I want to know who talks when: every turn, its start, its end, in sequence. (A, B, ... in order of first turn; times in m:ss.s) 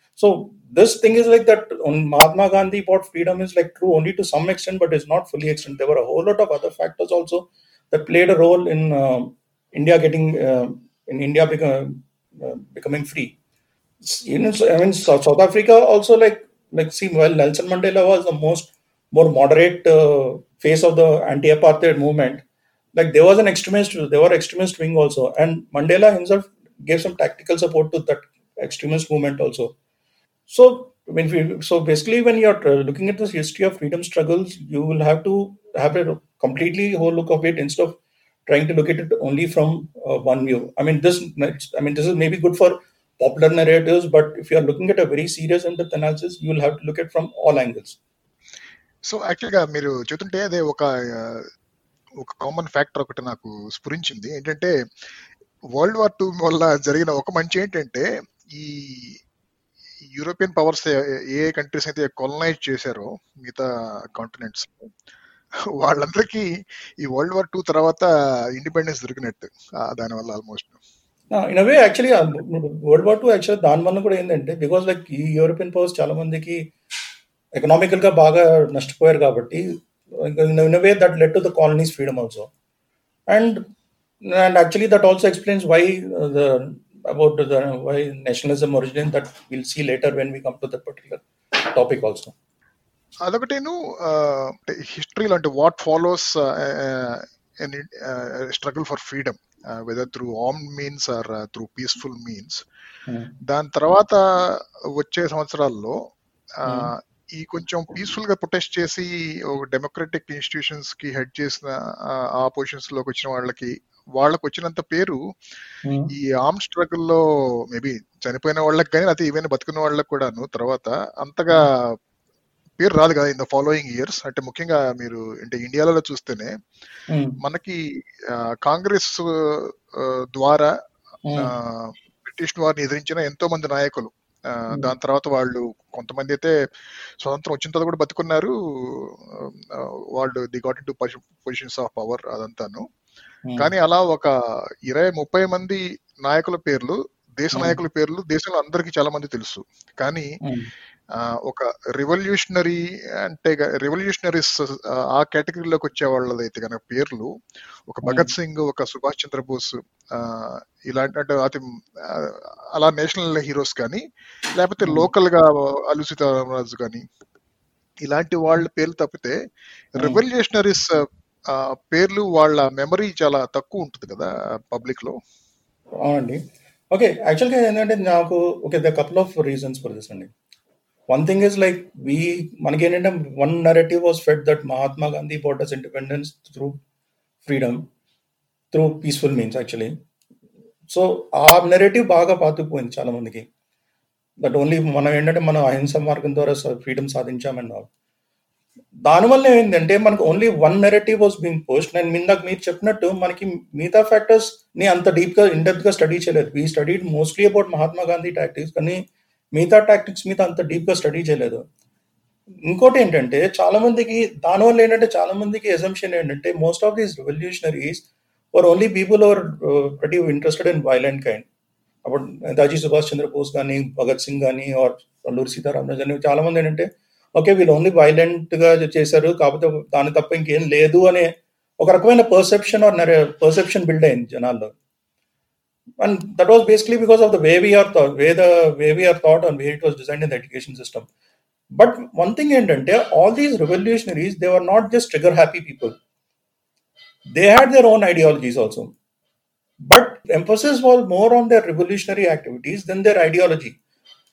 0:00.2-0:13.4 A
0:14.0-0:22.4 A
0:23.0-0:29.7 A
0:30.5-0:48.0 A
0:49.0-0:51.5 B
0:52.2-0:54.8 B
0:55.8-0:59.2 B
1:00.1-1:04.9 B
1:05.8-1:06.5 B
1:07.0-1:10.8 B
1:11.3-1:16.7 A
1:17.6-1:22.5 A
1:23.3-1:23.6 A
1:24.2-1:32.4 A
1:33.2-1:42.6 B
1:43.1-1:43.3 A
1:43.4-1:46.0 B
1:46.6-1:55.2 B
1:46.7-1:46.9 A
1:55.8-1:56.1 A
1:56.1-2:01.8 B
2:02.8-2:06.5 B
2:07.1-2:07.4 A
2:07.4-2:07.8 B
2:08.3-2:10.7 B
2:11.3-2:11.5 A
2:11.4-2:16.6 B
2:17.2-2:22.8 B
2:23.5-2:23.7 A
2:23.6-2:24.3 B
2:24.9-2:30.3 B
2:27.5-2:27.8 A
2:30.4-2:30.7 A
2:31.1-2:37.3 B
2:37.9-2:44.0 B
2:38.0-2:38.3 A
2:44.6-2:47.1 B
2:44.8-2:45.1 A
2:48.1-2:49.4 B
2:50.0-2:55.2 B
2:50.0-2:50.2 A
2:56.0-3:00.3 A
3:01.1-3:06.8 A
3:07.4-3:07.9 A
3:08.7-3:10.0 A
3:10.9-3:13.5 A
3:14.4-3:17.9 A
3:19.0-3:29.0 A
3:29.5-3:31.6 A
3:32.6-3:41.5 A
3:42.0-3:54.8 A
3:56.0-4:01.1 A
4:01.7-4:05.9 A
4:07.3-4:08.9 A
4:09.8-4:13.8 A